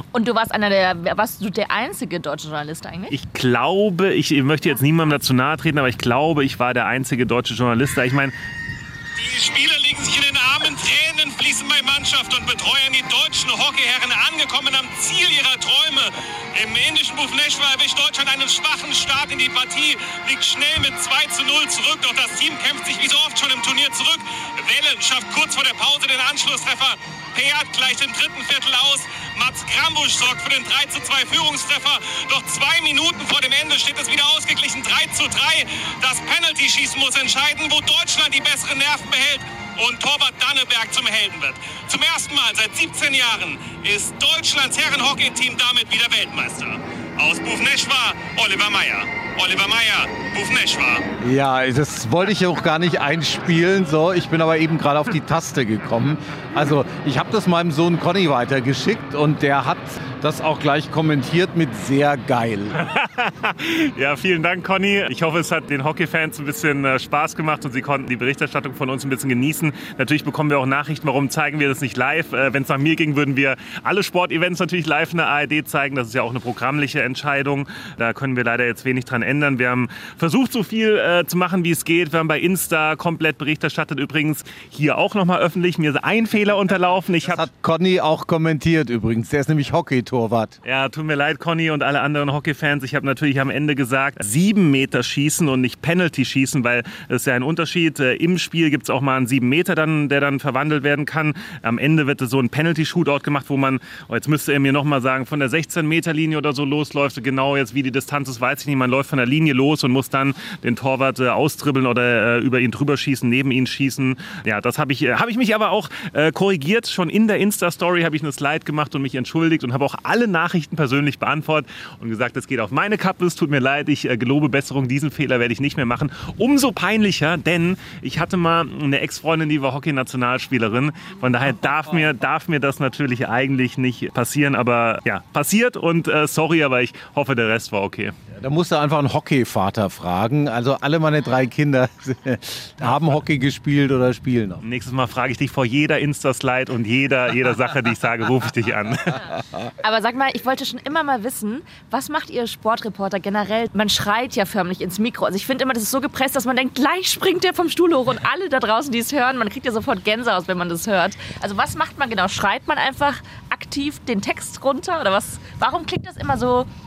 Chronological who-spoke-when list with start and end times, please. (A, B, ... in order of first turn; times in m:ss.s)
0:00.1-0:03.1 A
0:03.1-0:08.3 B
0:09.2-0:51.0 C
0:51.2-1:02.8 D
1:02.7-1:27.4 B
1:27.2-1:30.6 D
1:30.6-2:18.1 B
2:18.3-2:24.6 D
2:24.6-2:29.2 B
2:29.8-2:46.7 A